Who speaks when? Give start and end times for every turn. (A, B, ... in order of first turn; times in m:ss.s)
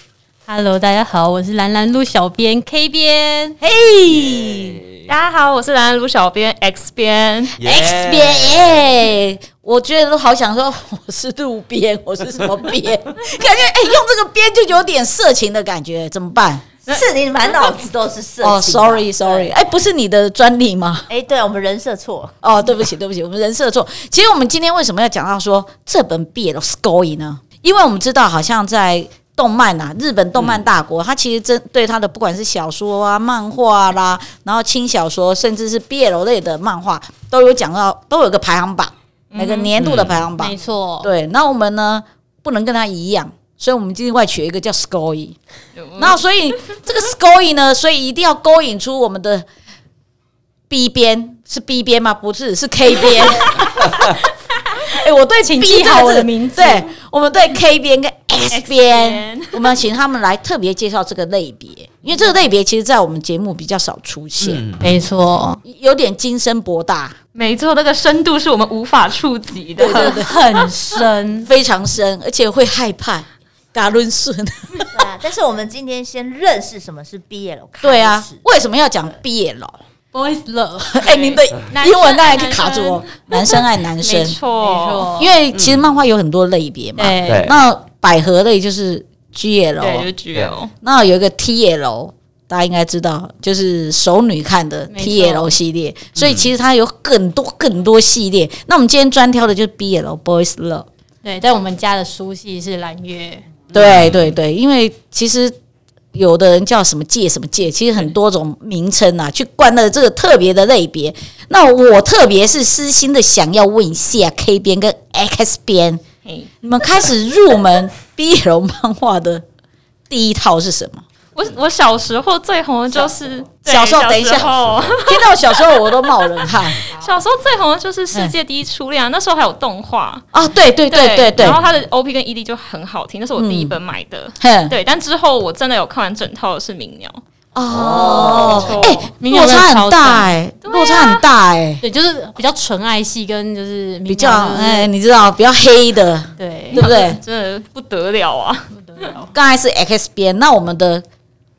0:00.5-0:03.6 A
0:03.6-0:04.8 B
0:04.1-0:05.0 C
0:05.1-0:07.5 D
0:07.6-0:08.8 C
0:07.6-0:16.6 B
0:16.9-0:19.5 E
0:16.9-0:17.7 D
0:18.4-0:21.1 B
0:21.1-0:22.3 E
0:22.4-0:45.4 B
0:39.3-0:39.7 D
0:39.8-0:40.2 C
0:40.4-0:41.1 A
0:45.8-0:46.2 D
0:46.0-0:49.4 B
0:50.7-0:53.6 B
0:54.8-1:04.6 B
0:55.4-0:56.9 A
0:58.5-0:59.6 D
1:04.4-1:04.9 C
1:04.8-1:05.6 A
1:05.6-1:07.2 B
1:07.3-1:10.2 D
1:09.8-1:10.3 B
1:09.8-1:11.5 A
1:11.4-1:15.0 B
1:14.9-1:18.3 E
1:17.8-1:19.8 B
1:20.1-1:21.1 A
1:20.8-1:24.4 B
1:21.0-1:25.1 D
1:24.6-1:25.4 A
1:25.2-1:30.1 B
1:25.5-1:25.8 C
1:27.0-1:27.5 A
1:27.2-1:27.5 C
1:29.8-1:30.7 D
1:30.8-1:40.9 B
1:34.9-1:35.5 A
1:36.2-1:36.5 C
1:41.2-1:43.4 A
1:43.7-1:44.2 C
1:43.7-1:45.5 B
1:46.1-1:56.0 B
1:56.2-1:56.5 D
1:56.6-1:59.4 B
2:00.1-2:01.0 B
2:01.3-2:10.2 D
2:03.7-2:04.5 B
2:04.6-2:05.0 C
2:05.0-2:06.8 B
2:10.3-2:11.6 B
2:10.9-2:17.2 D
2:13.4-2:13.8 B
2:14.4-2:14.7 B
2:17.5-2:21.8 B
2:17.7-2:18.6 C
2:17.8-2:19.1 D
2:19.2-2:20.3 A
2:20.6-2:21.2 D
2:21.8-2:24.9 A
2:24.1-2:27.2 B
2:26.4-2:26.8 A
2:26.7-2:28.7 D
2:28.7-2:29.3 A
2:29.3-2:31.0 B